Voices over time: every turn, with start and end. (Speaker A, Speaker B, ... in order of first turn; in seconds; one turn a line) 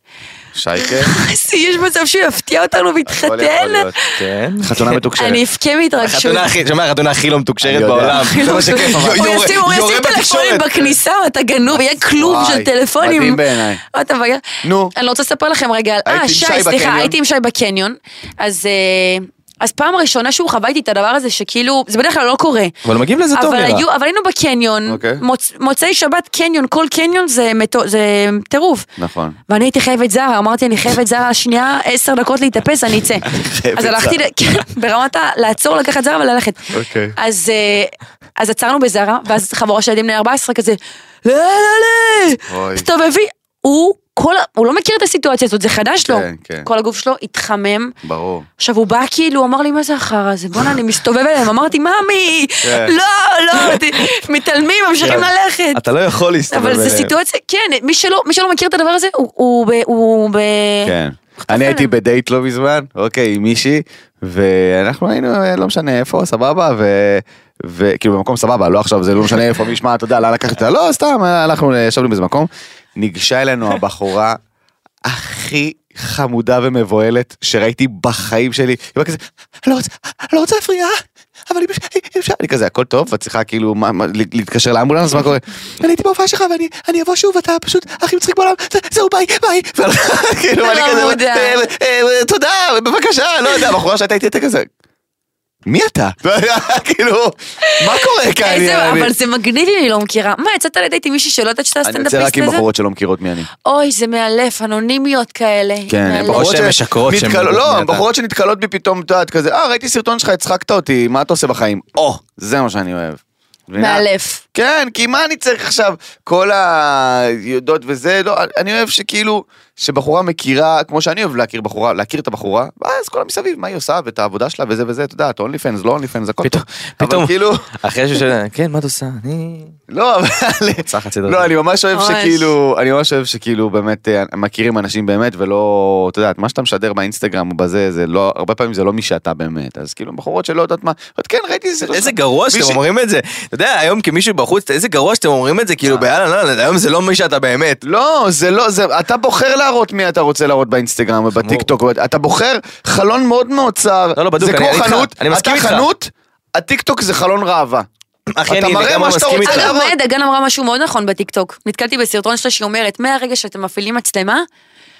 Speaker A: 0.5-1.1
Speaker B: 0.8-4.2
Speaker A: 3.0-4.0
Speaker C: 4.2-5.0
Speaker A: 4.6-5.4
Speaker B: 5.2-6.5
Speaker C: 6.0-9.2
Speaker A: 7.6-10.9
Speaker B: 8.0-22.7
Speaker A: 12.0-13.8
Speaker A: 14.6-14.9
Speaker A: 16.0-17.1
Speaker C: 22.8-23.8
Speaker B: 23.3-28.9
Speaker A: 24.9-25.2
Speaker A: 29.0-29.4
Speaker B: 29.5-47.9
Speaker A: 33.2-34.2
Speaker A: 36.7-37.1
Speaker A: 42.5-42.9
Speaker A: 46.0-46.7
Speaker A: 48.0-48.5
Speaker B: 48.6-55.8
Speaker A: 52.6-52.9
Speaker C: 55.0-57.1
Speaker B: 56.5-61.9
Speaker A: 60.8-74.4
Speaker A: 75.0-94.7
Speaker B: 90.6-91.6
Speaker A: 95.7-99.1
Speaker B: 97.6-102.6
Speaker A: 101.8-103.5
Speaker B: 103.6-106.6
Speaker A: 105.9-127.7
Speaker C: 106.3-108.0
Speaker B: 113.8-114.4
Speaker C: 126.4-129.7
Speaker A: 129.9-142.8
Speaker C: 130.8-131.5
Speaker B: 131.9-132.5
Speaker C: 141.8-147.8
Speaker A: 147.8-157.9
Speaker C: 151.4-151.7
Speaker C: 154.2-155.8
Speaker C: 158.3-159.7
Speaker A: 158.5-159.9
Speaker B: 159.4-164.4